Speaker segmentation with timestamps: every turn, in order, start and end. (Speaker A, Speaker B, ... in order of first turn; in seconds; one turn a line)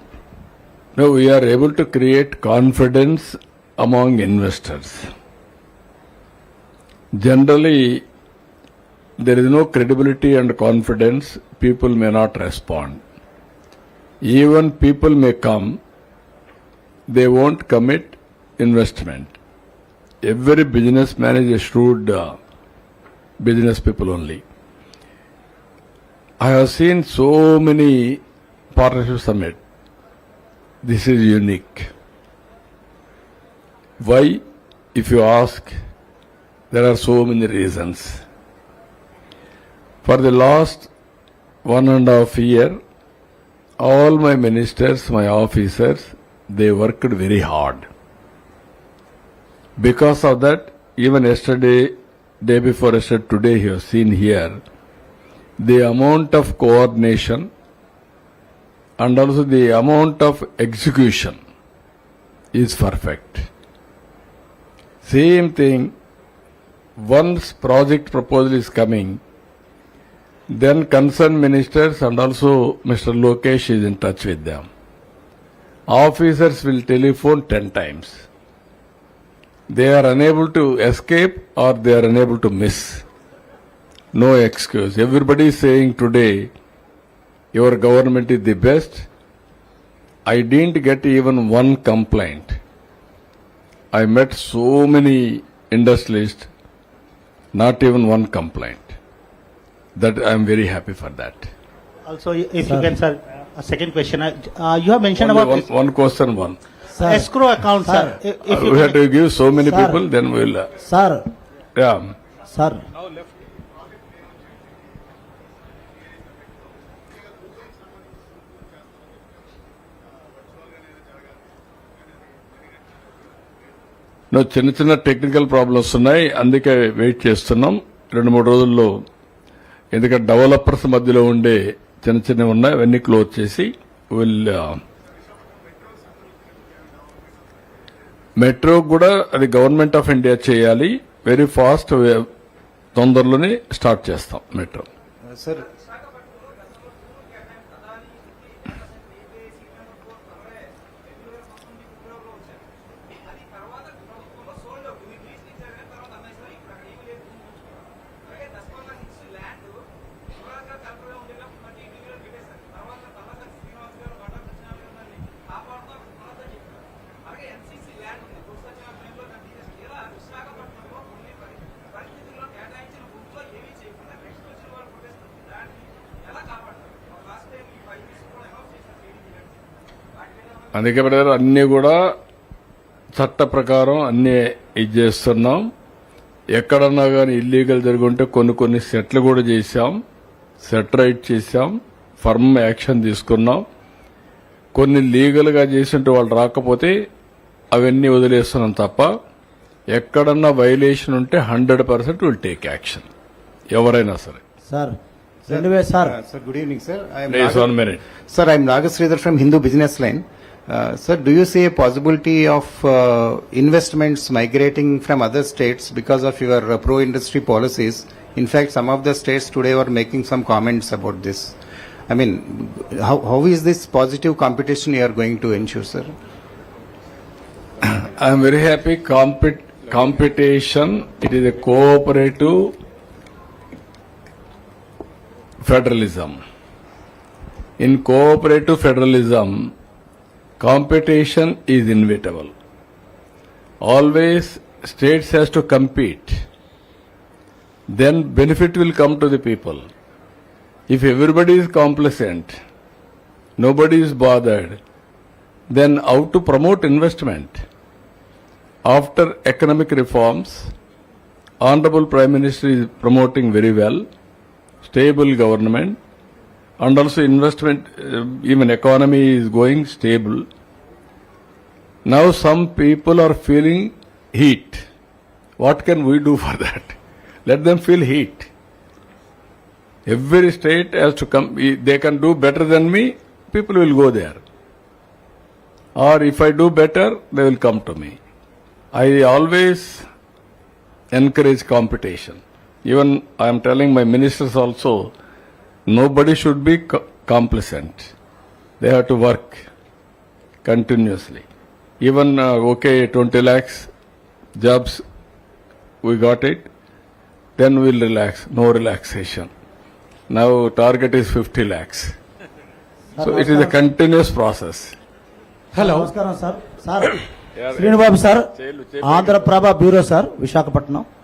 Speaker A: 0.9-5.0
Speaker A: 7.2-8.0
Speaker A: 9.2-13.0
Speaker A: 14.3-15.8
Speaker A: 17.1-19.3
Speaker A: 20.2-22.4
Speaker A: 23.4-24.4
Speaker A: 26.4-28.2
Speaker A: 28.7-29.6
Speaker A: 30.8-31.9
Speaker A: 34.0-34.4
Speaker A: 34.9-35.7
Speaker A: 36.7-38.1
Speaker A: 40.0-40.9
Speaker A: 41.6-42.8
Speaker A: 43.8-47.8
Speaker A: 49.8-51.9
Speaker A: 52.4-54.5
Speaker A: 55.6-57.5
Speaker A: 59.0-61.4
Speaker A: 62.5-63.5
Speaker A: 65.0-65.9
Speaker A: 67.0-69.2
Speaker A: 70.6-74.7
Speaker A: 75.9-78.2
Speaker A: 79.7-83.0
Speaker A: 84.1-86.5
Speaker A: 87.5-89.0
Speaker A: 90.3-92.6
Speaker A: 93.9-96.5
Speaker A: 97.5-98.9
Speaker A: 100.0-101.5
Speaker B: 102.0-105.7
Speaker C: 102.6-102.9
Speaker A: 105.2-106.6
Speaker C: 106.9-107.3
Speaker B: 107.0-109.0
Speaker C: 107.8-108.2
Speaker A: 108.5-110.7
Speaker C: 109.6-110.0
Speaker C: 110.8-111.2
Speaker A: 111.8-112.1
Speaker C: 112.5-112.8
Speaker A: 124.3-128.9
Speaker A: 129.9-134.8
Speaker A: 138.4-142.3
Speaker A: 142.9-144.8
Speaker D: 145.3-145.6
Speaker A: 180.7-182.0
Speaker A: 183.1-185.6
Speaker A: 186.5-190.0
Speaker A: 190.6-193.6
Speaker A: 194.7-196.9
Speaker A: 197.7-199.1
Speaker A: 199.9-203.1
Speaker A: 203.7-204.4
Speaker C: 204.7-204.9
Speaker D: 205.4-207.8
Speaker C: 205.5-206.1
Speaker A: 207.3-208.0
Speaker D: 208.3-221.6
Speaker D: 222.1-226.1
Speaker A: 227.8-232.7
Speaker A: 235.6-236.4
Speaker A: 237.8-239.5
Speaker A: 240.6-242.5
Speaker A: 243.8-246.3
Speaker A: 247.9-249.9
Speaker A: 250.9-252.5
Speaker A: 253.6-254.8
Speaker A: 255.7-257.6
Speaker A: 258.9-260.7
Speaker A: 261.6-264.0
Speaker A: 264.8-266.0
Speaker A: 266.8-270.4
Speaker A: 272.1-274.8
Speaker A: 275.6-278.5
Speaker A: 280.1-284.4
Speaker A: 286.0-288.2
Speaker A: 288.9-290.0
Speaker A: 291.1-295.1
Speaker A: 295.9-298.1
Speaker A: 298.8-299.6
Speaker A: 300.6-301.4
Speaker A: 302.0-303.9
Speaker A: 304.6-305.0
Speaker A: 306.0-306.7
Speaker A: 307.6-309.5
Speaker A: 310.3-312.1
Speaker C: 313.2-313.8
Speaker A: 313.2-314.9
Speaker C: 315.8-317.1
Speaker A: 317.6-319.7
Speaker C: 317.8-318.4
Speaker C: 319.0-321.0